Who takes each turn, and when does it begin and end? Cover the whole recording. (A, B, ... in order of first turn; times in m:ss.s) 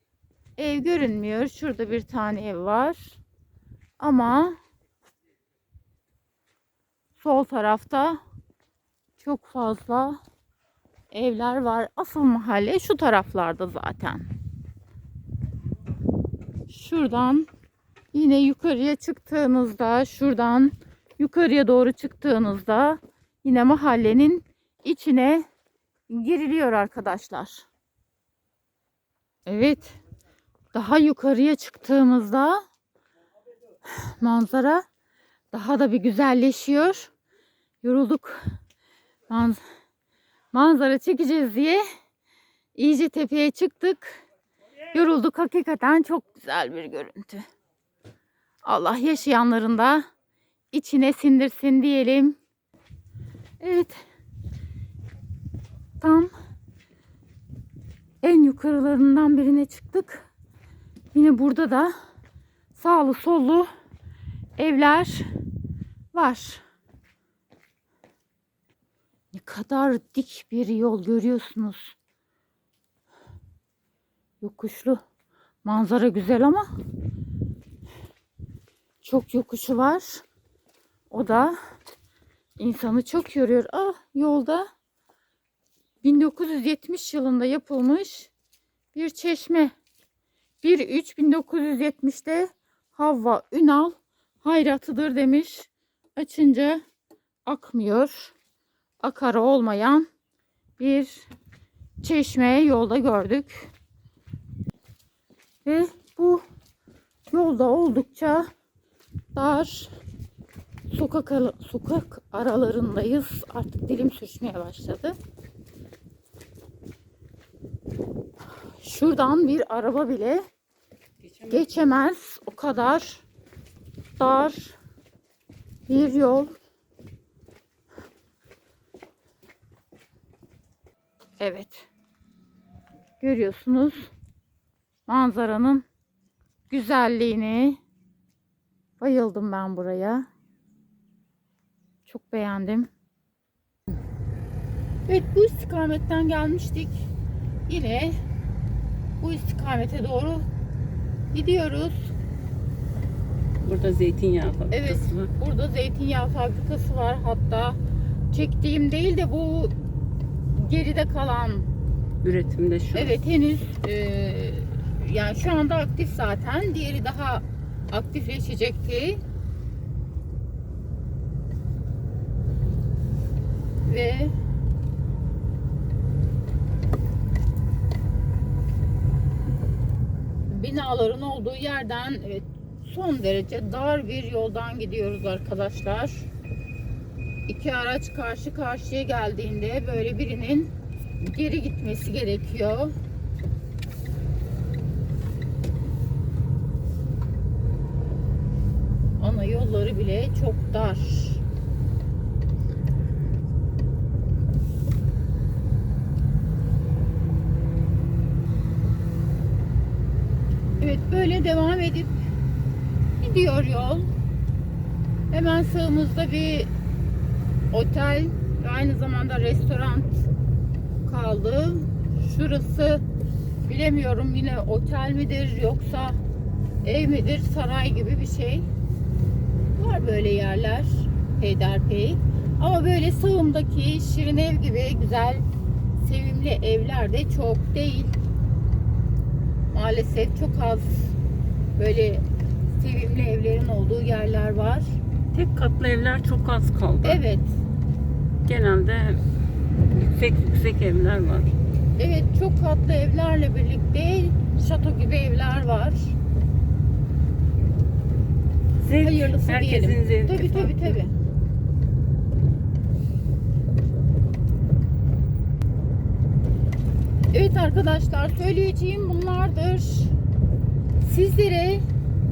0:00.6-0:03.2 A
0:04.0-0:04.6 A
0:07.2-0:08.2 A
0:09.2-0:10.2 A
0:11.1-0:14.3 A
0:16.7-0:17.5 A
0:18.1-0:25.5 A
0:26.1-0:27.6 A
0:29.5-0:30.0 A
0:30.7-0:32.6 A
0:33.9-0:34.8 A
0:35.5-0:37.1 A
0:37.8-0:38.4 A
0:39.3-0:39.6 A
0:40.5-0:41.8 A
0:42.8-0:44.2 A
0:44.9-0:47.5 A
0:48.6-0:50.1 A
0:50.7-0:52.4 A
0:53.6-0:54.0 A
0:56.0-0:56.3 A
0:58.2-1:00.3 A
1:01.1-1:01.9 A
1:02.8-1:03.7 A
1:04.6-1:05.3 A
1:06.1-1:06.6 A
1:09.3-1:12.0 A
1:14.4-1:15.0 A
1:15.6-1:16.7 A
1:19.0-1:20.2 A
1:21.1-1:21.6 A
1:22.6-1:24.7 A
1:26.0-1:28.3 A
1:28.9-1:29.7 A
1:30.6-1:36.8 A
1:37.5-1:38.3 A
1:39.0-1:40.1 A
1:40.8-1:41.3 A
1:42.0-1:43.7 A
1:45.7-1:46.4 A
1:47.3-1:48.5 A
1:49.4-1:49.9 A
1:50.9-1:55.2 A
1:58.8-2:00.4 A
2:01.2-2:02.0 B
2:01.5-2:03.2 A
2:04.2-2:04.8 A
2:05.9-2:06.6 A
2:11.4-2:11.9 A
2:13.2-2:14.1 A
2:15.1-2:15.8 A
2:16.7-2:17.8 A
2:19.0-2:20.3 A
2:22.1-2:22.9 A
2:25.1-2:27.1 A
2:27.7-2:28.2 A
2:29.2-2:30.5 A
2:31.3-2:32.1 A
2:33.6-2:35.3 B
2:34.7-2:37.8 A
2:38.3-2:39.7 A
2:40.5-2:41.7 A
2:42.2-2:43.2 B
2:42.9-2:49.2 A
2:53.9-2:54.3 A
3:00.5-3:06.3 A
3:07.5-3:13.0 A
3:19.2-3:21.4 A
3:30.8-3:32.2 A
3:33.2-3:34.1 A
3:35.3-3:36.7 A
3:37.7-3:40.2 A
3:41.0-3:43.0 A
3:43.7-3:46.2 A
3:46.8-3:48.7 A
3:49.8-3:55.4 A
3:56.0-3:58.1 A
3:59.7-4:01.2 A
4:01.8-4:02.2 A
4:02.8-4:05.0 A
4:05.3-4:07.2 B
4:07.0-4:07.5 A
4:08.5-4:09.2 B
4:09.9-4:11.5 B
4:12.0-4:16.2 A
4:18.8-4:21.0 B
4:19.0-4:21.1 A
4:27.3-4:30.1 A
4:31.0-4:31.8 A